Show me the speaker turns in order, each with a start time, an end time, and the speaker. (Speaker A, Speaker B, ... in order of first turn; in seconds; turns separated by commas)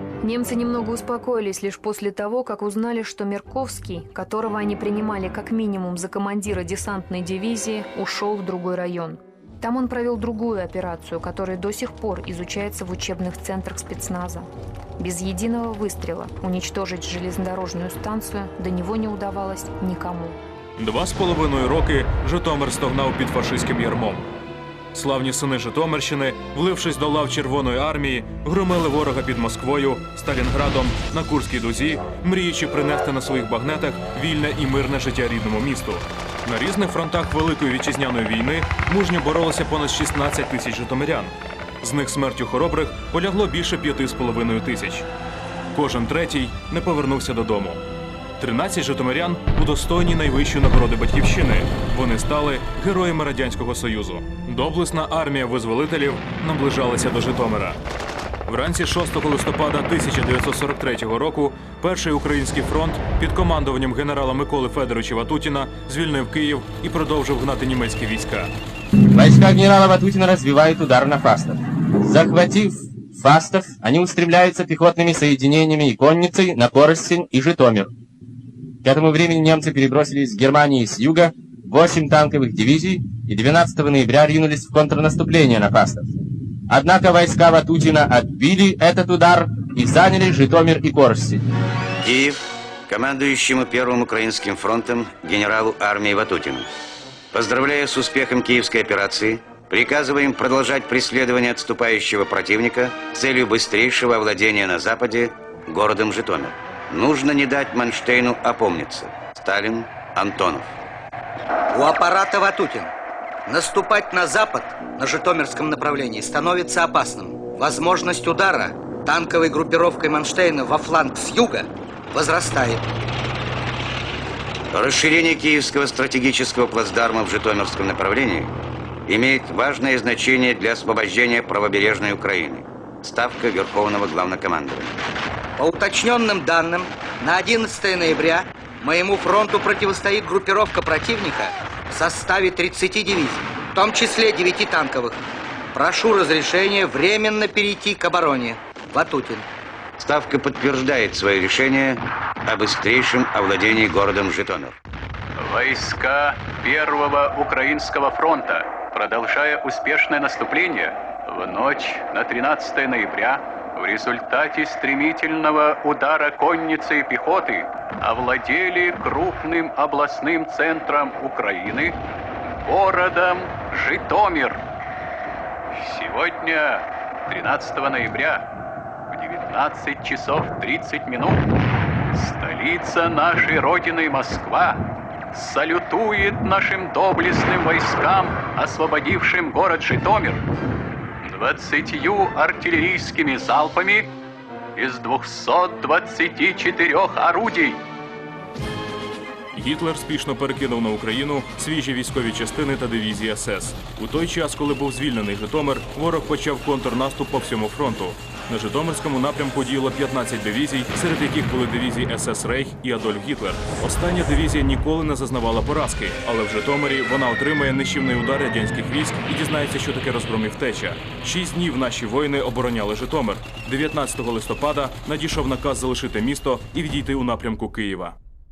Speaker A: 0.2-20.4, Speaker B: 20.8-24.2, Speaker B: 24.9-45.1, Speaker B: 45.7-47.8, Speaker B: 48.4-57.8, Speaker B: 58.5-68.5, Speaker C: 69.1-77.9, Speaker C: 78.8-86.1, Speaker C: 86.7-91.4, Speaker D: 92.0-96.7, Speaker D: 97.3-110.8, Speaker E: 111.7-112.9, Speaker E: 113.5-122.8, Speaker D: 124.7-128.5, Speaker D: 129.1-134.9, Speaker E: 135.6-145.2, Speaker E: 145.7-149.4, Speaker D: 150.0-154.8, Speaker F: 155.4-172.0, Speaker F: 172.6-174.6, Speaker F: 175.7-178.4, Speaker F: 179.1-181.4, Speaker F: 182.1-184.8, Speaker F: 185.3-190.4, Speaker F: 191.2-194.1, Speaker F: 194.8-197.8, Speaker B: 199.5-228.2